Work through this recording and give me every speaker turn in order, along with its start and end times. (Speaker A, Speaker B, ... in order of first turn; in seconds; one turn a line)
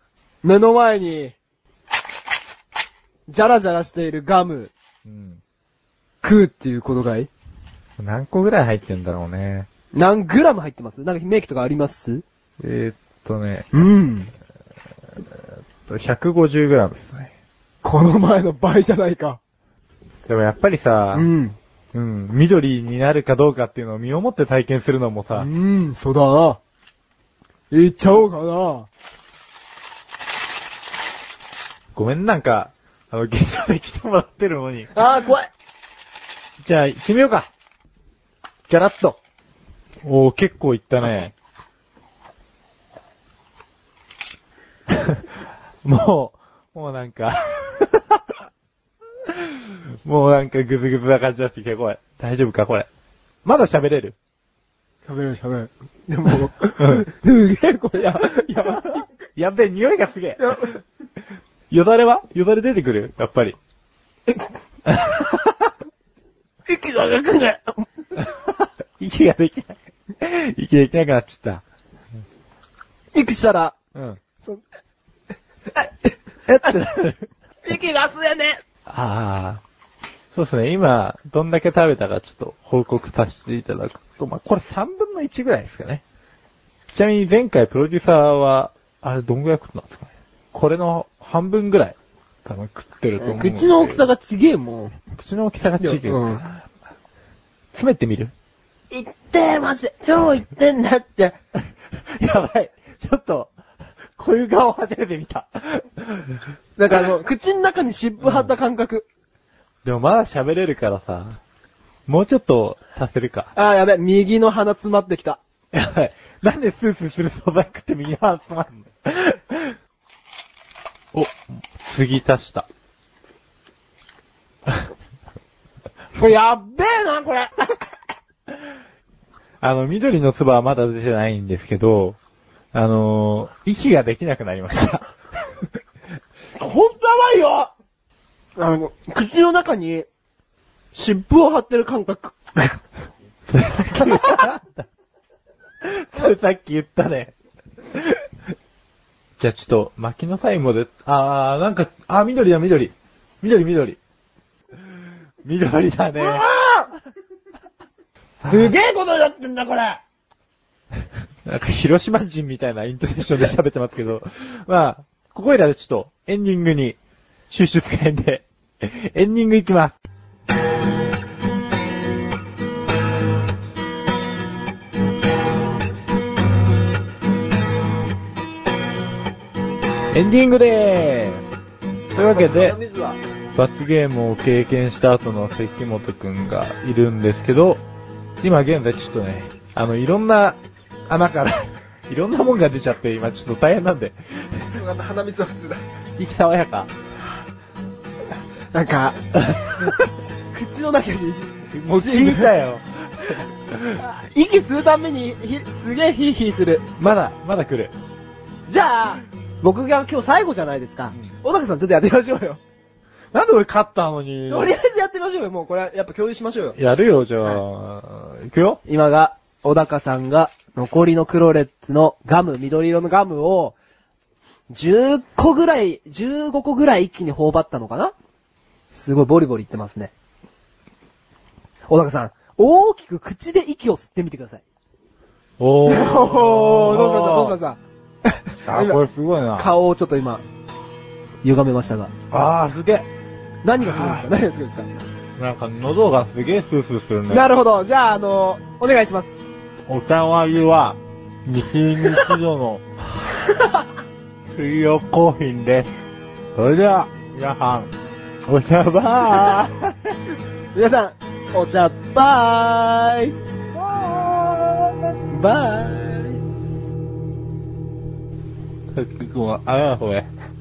Speaker A: 0.4-1.3
Speaker A: 3.3-4.7
Speaker B: 5.0-5.4
Speaker A: 6.2-7.3
Speaker B: 8.0-9.7
Speaker A: 9.9-12.2
Speaker B: 12.6-13.9
Speaker A: 13.7-14.3
Speaker B: 15.8-17.3
Speaker A: 17.8-19.4
Speaker B: 20.3-21.3
Speaker A: 21.1-21.6
Speaker B: 21.9-25.5
Speaker A: 25.3-26.6
Speaker A: 27.7-28.9
Speaker B: 31.9-35.0
Speaker A: 34.9-35.5
Speaker B: 36.6-37.5
Speaker B: 38.7-39.2
Speaker B: 40.0-41.3
Speaker B: 44.9-45.2
Speaker B: 45.8-48.4
Speaker B: 49.3-52.9
Speaker B: 53.4-54.1
Speaker A: 55.0-59.0
Speaker B: 56.8-57.0
Speaker B: 59.4-60.7
Speaker A: 60.4-60.8
Speaker B: 61.7-63.5
Speaker B: 64.8-65.7
Speaker A: 66.7-67.9
Speaker B: 68.2-71.6
Speaker A: 73.1-73.7
Speaker B: 73.9-74.2
Speaker A: 75.7-76.8
Speaker B: 76.5-77.2
Speaker A: 77.7-78.6
Speaker B: 78.9-79.6
Speaker B: 80.3-86.0
Speaker B: 86.9-94.0
Speaker A: 93.2-95.0
Speaker B: 95.1-96.6
Speaker A: 95.8-96.4
Speaker B: 97.7-98.3
Speaker A: 98.9-101.3
Speaker B: 102.2-103.5
Speaker B: 104.2-106.4
Speaker A: 106.8-109.0
Speaker B: 108.2-108.5
Speaker B: 109.8-111.4
Speaker B: 112.1-113.5
Speaker A: 113.5-115.4
Speaker B: 115.7-119.8
Speaker B: 121.1-122.7
Speaker A: 126.2-127.8
Speaker B: 129.6-132.2
Speaker B: 132.7-135.1
Speaker A: 136.6-137.7
Speaker A: 138.6-140.1
Speaker A: 140.9-142.8
Speaker B: 143.5-144.8
Speaker B: 145.8-147.3
Speaker B: 147.9-148.2
Speaker B: 149.4-154.0
Speaker B: 155.4-156.4
Speaker A: 156.2-156.9
Speaker B: 158.4-158.7
Speaker A: 158.4-160.0
Speaker B: 161.4-167.0
Speaker B: 167.5-170.0
Speaker B: 180.1-181.4
Speaker B: 182.1-182.8
Speaker A: 182.3-183.2
Speaker B: 183.5-187.8
Speaker B: 188.4-194.7
Speaker A: 194.7-195.8
Speaker B: 196.2-196.9
Speaker A: 198.7-202.5
Speaker B: 199.3-199.9
Speaker B: 201.7-204.0
Speaker A: 203.9-206.8
Speaker B: 207.0-207.9
Speaker A: 208.7-212.6
Speaker B: 213.3-214.7
Speaker A: 214.5-216.8
Speaker B: 216.7-218.8
Speaker A: 218.8-223.8
Speaker A: 224.7-228.1
Speaker A: 228.9-230.1
Speaker A: 231.9-234.6
Speaker B: 235.6-237.6
Speaker A: 235.8-239.0
Speaker B: 238.7-239.7
Speaker A: 239.6-240.4
Speaker A: 241.4-242.1
Speaker B: 242.3-243.1
Speaker A: 243.6-244.9
Speaker B: 243.8-244.3
Speaker B: 245.4-247.5
Speaker A: 247.3-249.4
Speaker B: 249.9-252.8
Speaker A: 253.3-253.8
Speaker B: 254.5-255.9
Speaker B: 256.6-257.9
Speaker B: 258.5-260.1
Speaker A: 260.7-263.3
Speaker B: 263.7-264.9
Speaker A: 265.3-266.4
Speaker B: 268.9-270.3